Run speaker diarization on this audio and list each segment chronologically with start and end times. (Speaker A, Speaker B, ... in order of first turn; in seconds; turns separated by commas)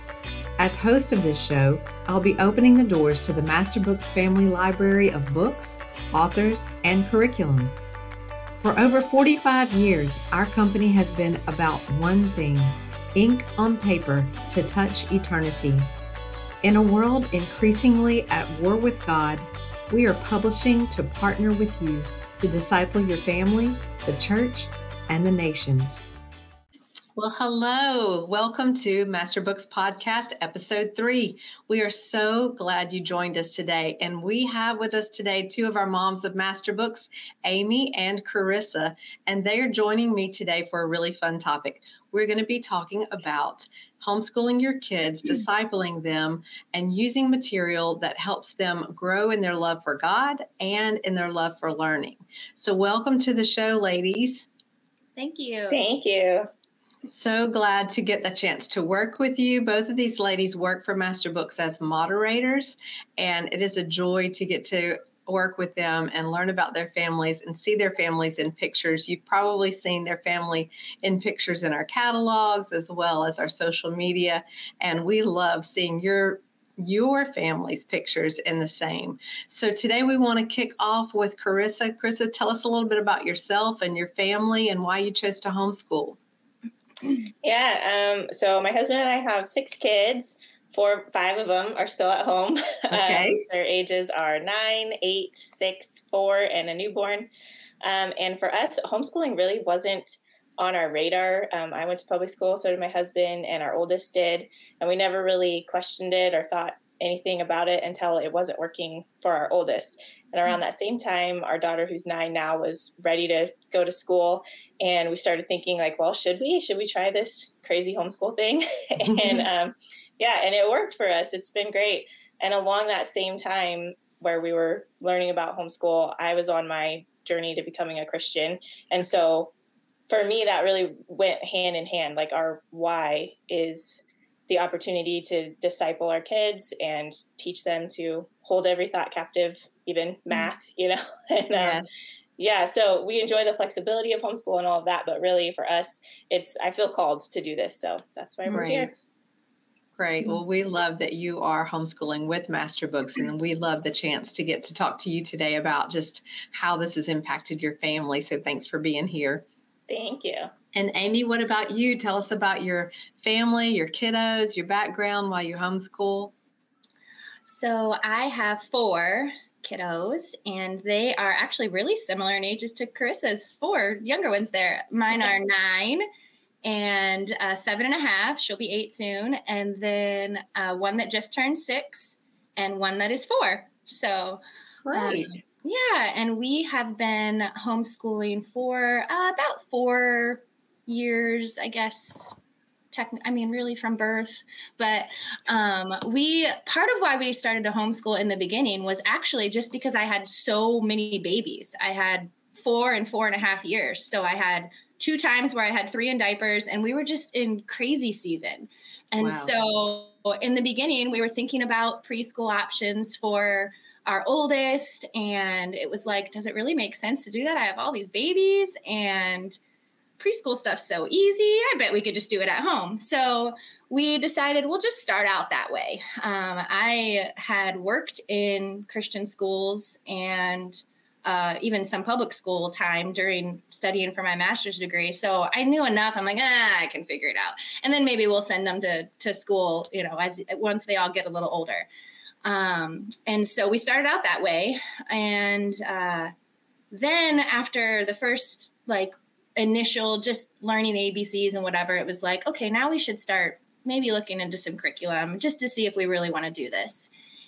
Speaker A: 0.6-7.8, Speaker A: 8.6-15.9, Speaker A: 16.6-26.0, Speaker A: 27.2-54.5, Speaker B: 55.2-55.8, Speaker C: 55.7-56.5, Speaker A: 57.1-86.2, Speaker C: 87.4-97.3, Speaker A: 92.9-93.4, Speaker C: 97.8-129.5, Speaker A: 119.0-119.5, Speaker C: 130.1-141.8, Speaker A: 141.5-141.9, Speaker C: 142.4-148.9, Speaker A: 148.5-148.9, Speaker A: 150.0-159.5, Speaker C: 159.9-160.5, Speaker A: 160.7-166.3, Speaker B: 167.5-176.0, Speaker B: 176.6-184.4, Speaker A: 184.8-185.3, Speaker B: 184.9-192.3, Speaker B: 192.9-219.6, Speaker A: 209.2-209.5, Speaker B: 220.2-241.9, Speaker B: 242.4-246.3, Speaker B: 246.9-257.1